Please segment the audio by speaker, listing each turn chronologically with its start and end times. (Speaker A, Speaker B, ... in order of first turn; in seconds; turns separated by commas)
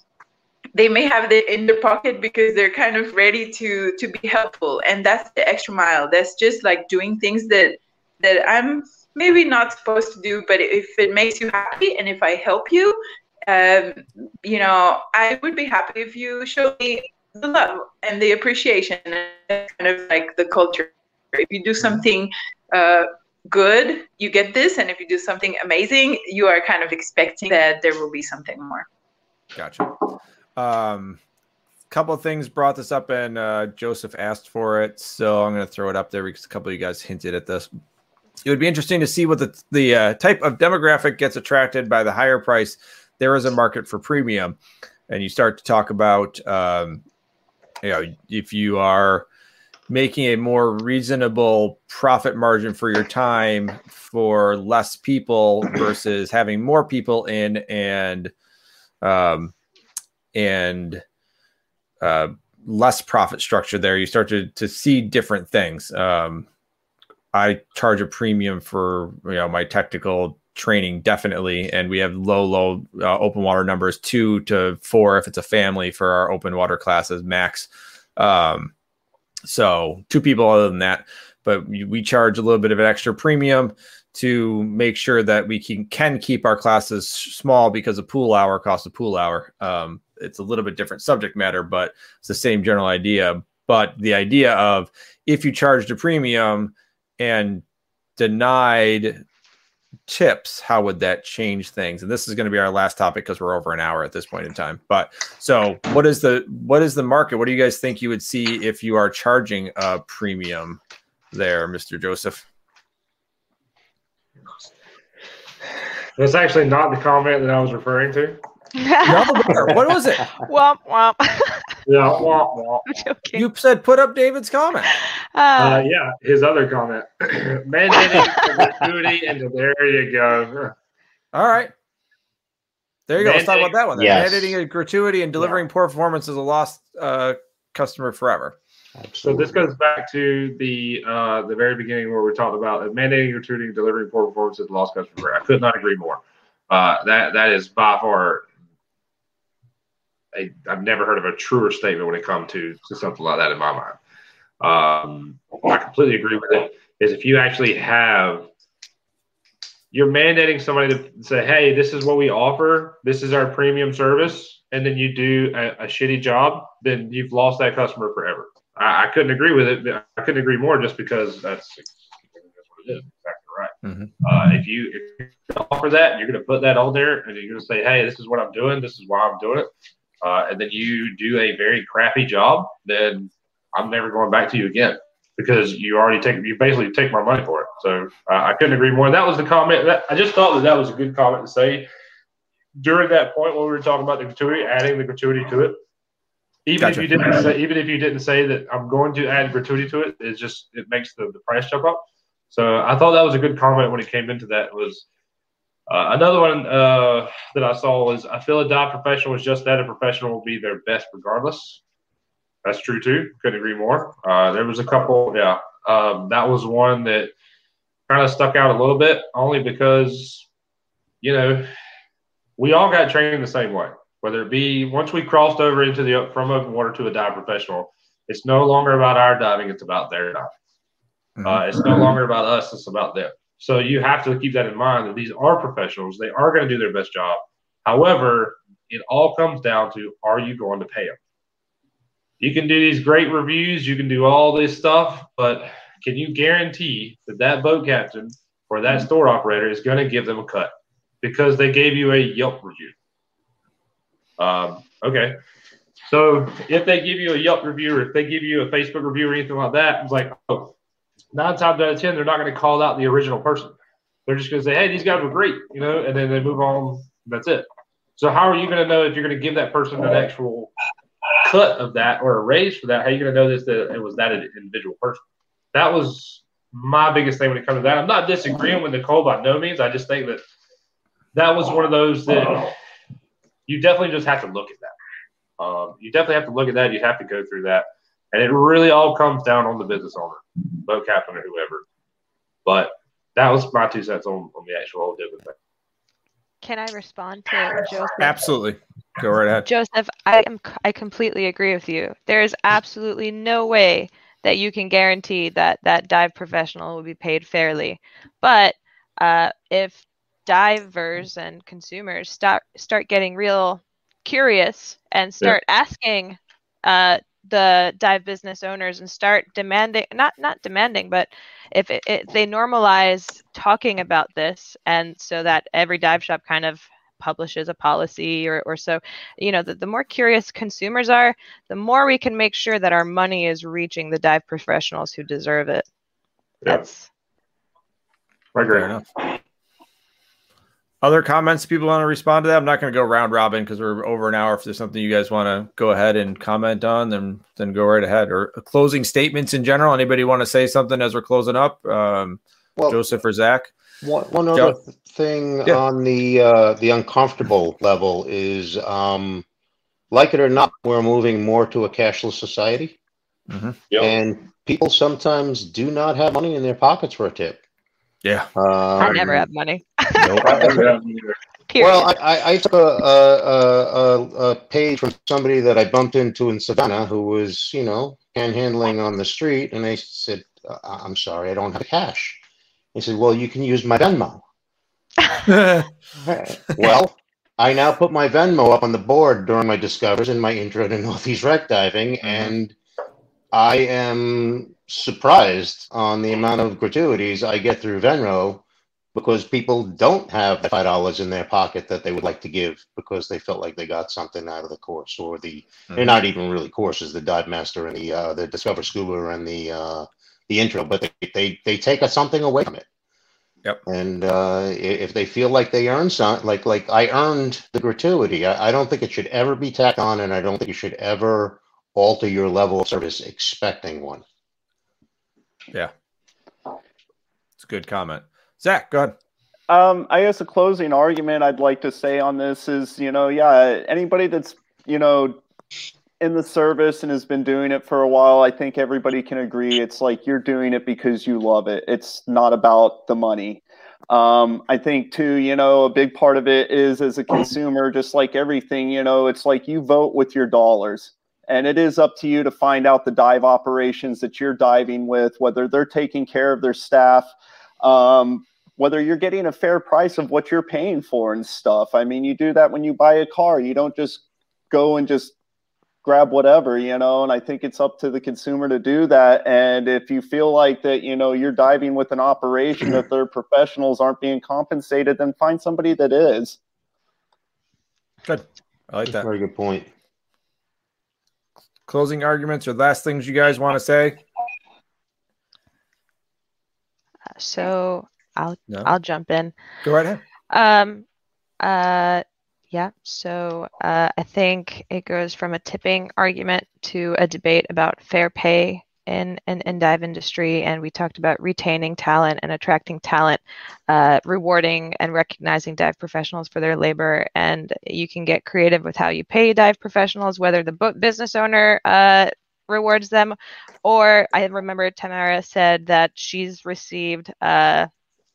Speaker A: 0.7-28.9, Speaker B: 29.5-29.9, Speaker B: 30.6-31.2, Speaker B: 31.9-37.7, Speaker B: 38.5-44.6, Speaker B: 45.1-47.0, Speaker B: 47.8-49.2, Speaker B: 49.9-58.3, Speaker B: 59.0-59.5, Speaker B: 60.3-61.0, Speaker B: 62.0-66.5, Speaker B: 67.3-78.7, Speaker B: 79.4-97.6, Speaker B: 98.2-99.2, Speaker B: 100.1-110.8, Speaker B: 111.3-112.4, Speaker C: 116.2-118.4, Speaker D: 118.8-119.7, Speaker B: 119.0-120.2, Speaker E: 119.5-119.8, Speaker D: 120.4-121.7, Speaker C: 121.8-122.8, Speaker D: 122.9-123.5, Speaker B: 123.3-124.9, Speaker D: 124.9-125.8, Speaker C: 125.6-130.7, Speaker B: 131.3-131.7, Speaker B: 133.1-138.6, Speaker C: 133.2-133.7, Speaker E: 133.9-134.6, Speaker E: 139.0-139.6, Speaker C: 139.2-148.4, Speaker C: 150.3-154.0, Speaker C: 154.6-158.5, Speaker C: 159.9-179.7, Speaker B: 173.8-174.1, Speaker C: 180.2-191.9, Speaker C: 192.8-195.8, Speaker C: 196.7-205.1, Speaker B: 196.8-197.5, Speaker C: 205.9-211.8, Speaker C: 212.6-217.3, Speaker C: 218.1-220.4, Speaker C: 221.2-221.7, Speaker C: 222.6-230.5, Speaker B: 231.4-232.1, Speaker C: 231.4-241.2, Speaker C: 242.4-252.9, Speaker C: 254.4-255.4, Speaker C: 256.1-260.8, Speaker C: 261.3-267.6, Speaker C: 268.2-270.7, Speaker C: 271.3-275.2, Speaker C: 275.7-280.4, Speaker C: 281.3-282.7, Speaker C: 283.7-284.9, Speaker C: 285.6-291.8, Speaker C: 292.6-295.6, Speaker D: 296.6-298.4, Speaker B: 298.2-299.7, Speaker D: 299.6-335.9, Speaker D: 336.6-337.1, Speaker C: 338.5-338.9, Speaker B: 338.6-339.0, Speaker B: 341.0-353.7, Speaker E: 354.0-359.4, Speaker E: 360.1-363.0, Speaker B: 363.5-363.8, Speaker E: 364.0-367.6, Speaker B: 368.2-368.5, Speaker E: 368.6-369.4, Speaker D: 369.0-370.6, Speaker B: 369.0-369.3, Speaker B: 370.2-370.7, Speaker E: 370.3-370.9, Speaker C: 370.4-371.3, Speaker D: 371.7-372.1, Speaker E: 371.8-382.4, Speaker E: 382.9-384.4, Speaker B: 385.4-385.9, Speaker E: 386.2-392.7, Speaker B: 392.2-392.5, Speaker E: 393.5-398.6, Speaker E: 399.1-412.9, Speaker E: 413.9-424.2, Speaker B: 427.6-429.1, Speaker F: 429.7-435.4, Speaker F: 436.2-465.3, Speaker F: 466.0-476.6, Speaker B: 478.2-479.3, Speaker E: 479.1-479.9, Speaker B: 481.9-484.2, Speaker D: 487.4-489.5, Speaker B: 489.8-490.2, Speaker D: 490.5-491.1, Speaker D: 491.6-517.9